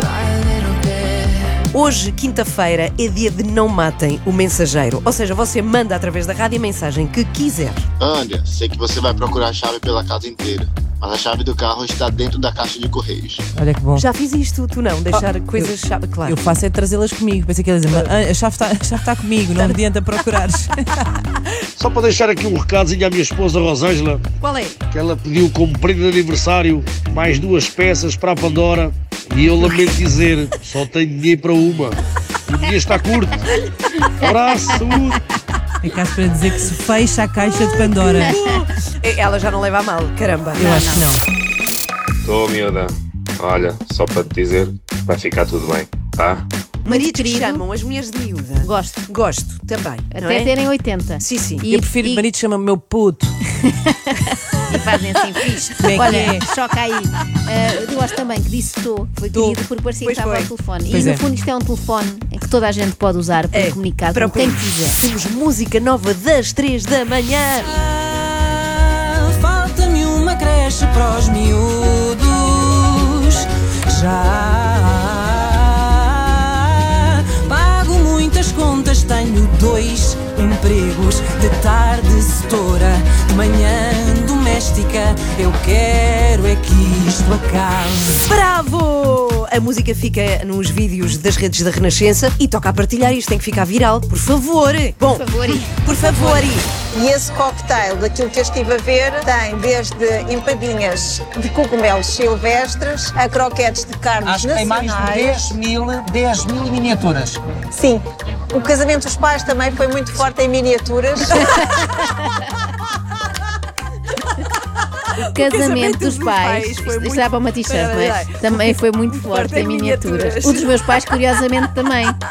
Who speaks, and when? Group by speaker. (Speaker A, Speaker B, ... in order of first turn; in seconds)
Speaker A: 1.7-7.9, 14.0-16.4, 24.4-24.8, 38.2-40.7, 46.8-50.5, 51.2-51.6, 60.0-60.5, 63.5-67.7, 88.3-96.7, 115.2-120.8
Speaker B: 8.0-13.4
Speaker C: 13.6-14.1, 15.1-21.1, 35.8-38.5, 40.5-41.2, 51.6-53.3, 55.8-56.4, 60.9-61.2
Speaker D: 21.8-24.2, 24.9-33.4, 34.0-35.2
Speaker E: 40.6-41.1, 46.9-47.6, 48.6-49.0, 50.1-52.2, 53.6-65.0, 95.1-96.5, 111.3-112.2, 115.2-122.2
Speaker F: 42.2-46.4
Speaker G: 67.8-88.3
Speaker H: 96.9-105.5, 107.8-111.6
Speaker I: 104.2-107.6